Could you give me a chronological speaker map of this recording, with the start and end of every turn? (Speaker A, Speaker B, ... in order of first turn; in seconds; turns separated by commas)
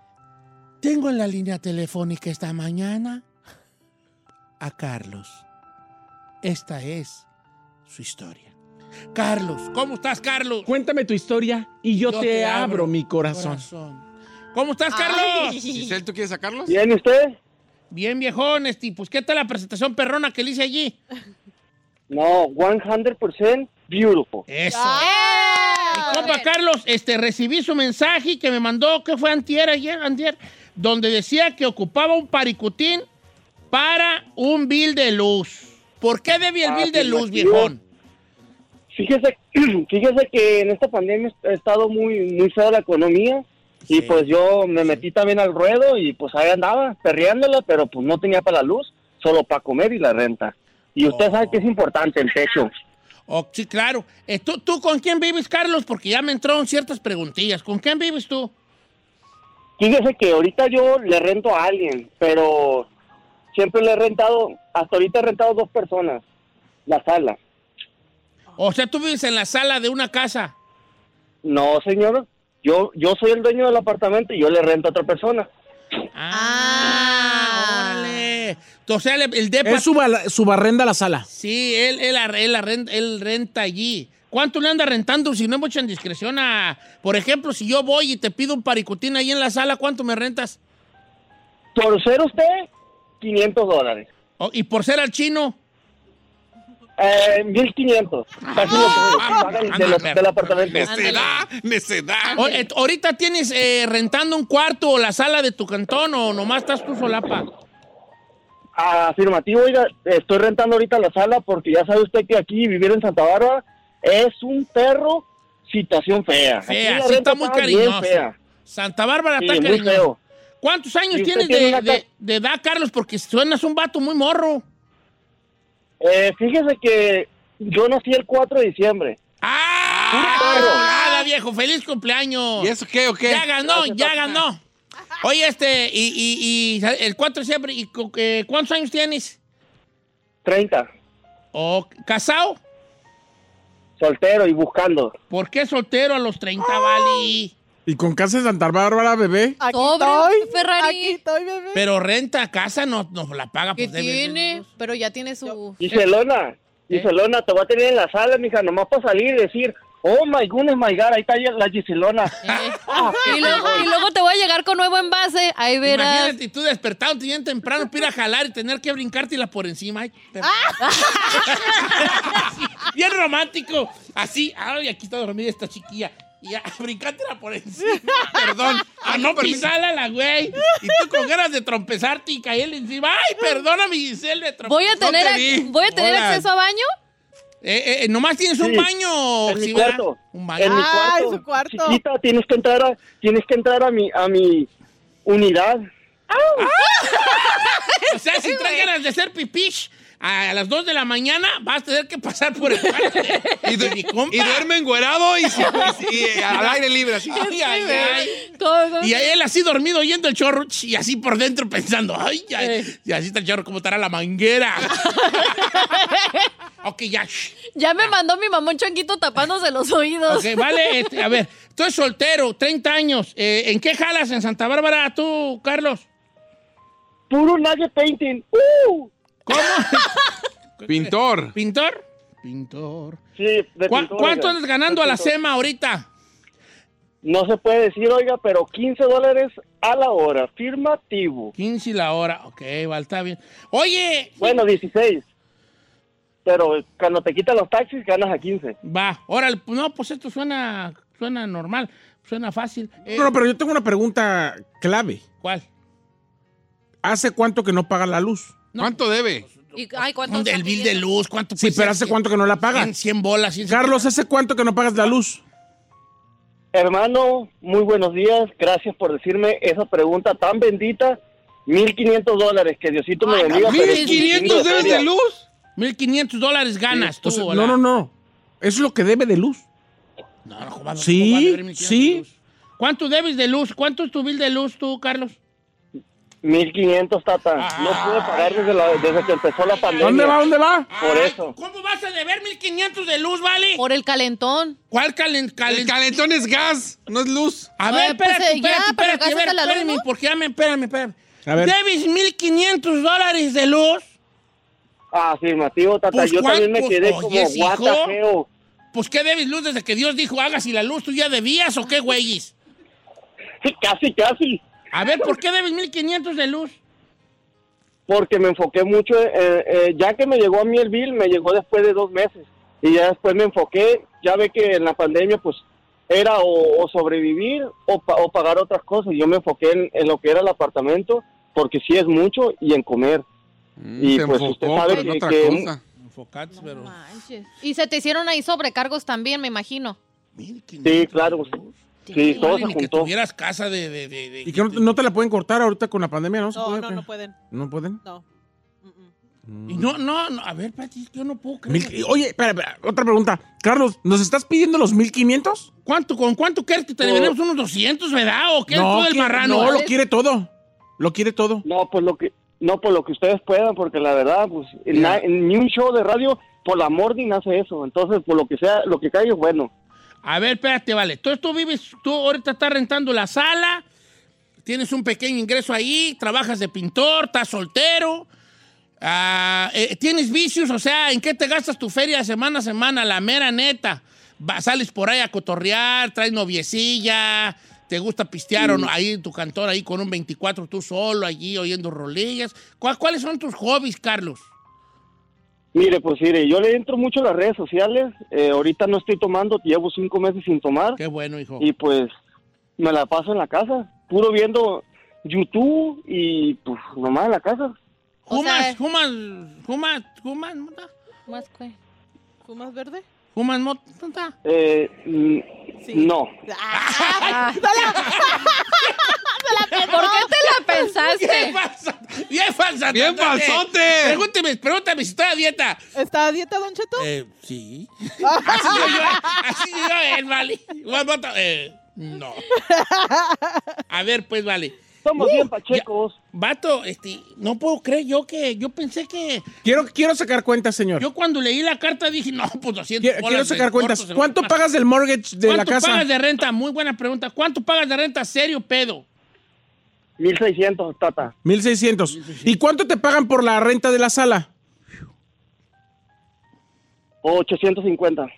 Speaker A: 0.8-3.2, Speaker A: 4.6-5.4, Speaker A: 6.4-7.2, Speaker A: 7.9-8.5, Speaker A: 9.1-10.7, Speaker B: 10.7-13.6, Speaker A: 12.0-15.6, Speaker C: 14.9-15.9, Speaker D: 15.6-16.8, Speaker E: 16.7-17.4, Speaker A: 17.9-20.9, Speaker E: 22.1-24.4, Speaker A: 24.5-25.1, Speaker F: 24.7-26.3, Speaker C: 25.0-26.5, Speaker A: 25.9-33.1, Speaker A: 33.7-37.8, Speaker E: 36.6-37.7, Speaker E: 38.9-52.7, Speaker A: 43.9-44.3, Speaker A: 51.0-51.6, Speaker A: 53.3-58.5, Speaker E: 59.8-62.9, Speaker E: 63.5-66.2, Speaker E: 66.8-67.4, Speaker A: 68.6-70.5, Speaker E: 71.4-75.5, Speaker A: 76.1-79.9, Speaker C: 76.3-78.2, Speaker B: 79.6-81.2, Speaker A: 81.3-90.6, Speaker E: 91.7-92.7, Speaker E: 93.2-94.1, Speaker A: 94.4-95.6, Speaker E: 97.0-101.2, Speaker D: 98.4-99.6, Speaker A: 98.6-101.3, Speaker D: 100.7-102.5, Speaker F: 100.9-101.2, Speaker A: 102.4-107.5, Speaker E: 108.8-118.3, Speaker A: 116.6-120.0, Speaker E: 119.4-120.2, Speaker A: 120.6-124.6, Speaker E: 121.1-122.0, Speaker E: 126.0-129.2, Speaker A: 129.4-132.7, Speaker D: 129.9-130.6, Speaker E: 130.3-130.8, Speaker D: 132.6-133.4, Speaker A: 133.2-134.6, Speaker E: 133.6-134.4, Speaker A: 135.2-139.4, Speaker E: 140.4-140.9, Speaker A: 141.5-142.6, Speaker E: 144.0-145.1, Speaker A: 145.3-147.5, Speaker F: 146.8-147.3, Speaker B: 147.8-149.6, Speaker F: 149.6-151.8, Speaker C: 149.7-151.2, Speaker A: 151.7-154.6, Speaker C: 153.8-155.8, Speaker E: 155.8-163.8, Speaker C: 162.4-166.3, Speaker A: 162.4-163.6, Speaker F: 162.9-163.2, Speaker A: 165.8-186.5, Speaker F: 170.4-171.4, Speaker C: 170.8-171.9, Speaker D: 178.2-179.7, Speaker F: 180.6-181.1, Speaker C: 184.7-186.9, Speaker D: 185.0-185.7, Speaker A: 187.6-191.0, Speaker E: 188.6-188.9, Speaker E: 189.4-194.7, Speaker F: 190.6-192.0, Speaker E: 195.2-195.8, Speaker A: 196.6-204.6, Speaker F: 197.0-197.8, Speaker D: 203.6-207.5, Speaker A: 205.6-206.8, Speaker C: 207.3-209.3, Speaker A: 207.3-208.4, Speaker A: 209.0-215.8, Speaker C: 215.3-216.5, Speaker A: 216.8-217.6, Speaker C: 217.7-221.1, Speaker A: 220.3-226.1, Speaker E: 227.3-229.1, Speaker A: 229.5-230.2, Speaker A: 230.8-233.2, Speaker D: 230.8-231.5, Speaker E: 233.4-235.3, Speaker A: 233.9-236.1, Speaker E: 237.2-241.5, Speaker A: 241.6-244.5, Speaker E: 244.4-245.2, Speaker E: 246.4-248.8, Speaker A: 248.8-253.3, Speaker B: 253.1-255.2, Speaker A: 255.4-255.7, Speaker B: 257.0-258.6, Speaker A: 258.7-262.2, Speaker D: 258.8-259.4, Speaker C: 259.7-261.1, Speaker B: 261.6-262.9, Speaker A: 262.7-264.1, Speaker B: 263.6-265.4, Speaker E: 266.7-275.1, Speaker A: 273.2-275.0, Speaker D: 273.6-275.4, Speaker A: 275.8-277.8, Speaker B: 276.9-279.6, Speaker A: 280.4-285.4, Speaker B: 281.0-282.2, Speaker E: 286.4-290.4, Speaker A: 287.6-288.7, Speaker A: 289.7-290.4, Speaker B: 290.0-290.9, Speaker A: 290.9-293.8, Speaker E: 291.0-291.5, Speaker C: 293.8-294.8, Speaker A: 294.9-296.0, Speaker D: 295.7-297.7, Speaker A: 297.8-304.1, Speaker C: 297.9-300.0, Speaker B: 301.4-301.7, Speaker E: 305.1-308.5, Speaker A: 306.1-308.1, Speaker A: 308.9-312.5, Speaker E: 313.6-314.6, Speaker A: 314.9-316.8, Speaker E: 318.1-333.2, Speaker D: 333.8-335.8, Speaker E: 334.0-335.7, Speaker A: 336.0-336.9, Speaker F: 336.8-337.4, Speaker C: 336.8-340.0, Speaker A: 340.4-344.9, Speaker E: 340.8-341.5, Speaker E: 342.1-343.1, Speaker B: 344.4-348.0, Speaker F: 346.5-347.4, Speaker F: 348.8-349.1, Speaker B: 349.5-349.9, Speaker A: 349.7-352.0, Speaker B: 351.7-355.7, Speaker A: 355.8-359.8, Speaker E: 357.0-357.3, Speaker B: 358.7-361.6, Speaker C: 359.6-359.9, Speaker E: 361.6-369.7, Speaker B: 364.9-365.2, Speaker A: 370.2-373.8, Speaker A: 374.6-378.3, Speaker A: 379.0-394.5, Speaker E: 388.6-388.9, Speaker E: 395.7-401.0, Speaker A: 401.0-401.6, Speaker E: 401.6-402.1, Speaker E: 402.8-407.7, Speaker A: 408.3-410.9, Speaker C: 408.3-408.8, Speaker C: 411.3-411.7, Speaker F: 412.4-413.0, Speaker A: 413.3-414.3, Speaker E: 414.4-416.3, Speaker F: 415.8-420.8, Speaker A: 416.7-418.9, Speaker C: 417.2-417.6, Speaker A: 419.7-425.8, Speaker C: 419.9-421.6, Speaker D: 422.9-424.2, Speaker F: 425.9-427.1, Speaker A: 427.0-432.5, Speaker F: 428.2-429.4, Speaker F: 432.5-433.8, Speaker A: 433.9-439.6, Speaker E: 435.0-436.2, Speaker B: 439.6-441.0, Speaker A: 441.0-444.6, Speaker B: 443.0-446.1, Speaker A: 445.4-449.0, Speaker E: 450.2-451.3, Speaker B: 451.4-454.5, Speaker A: 452.1-452.6, Speaker E: 457.2-458.3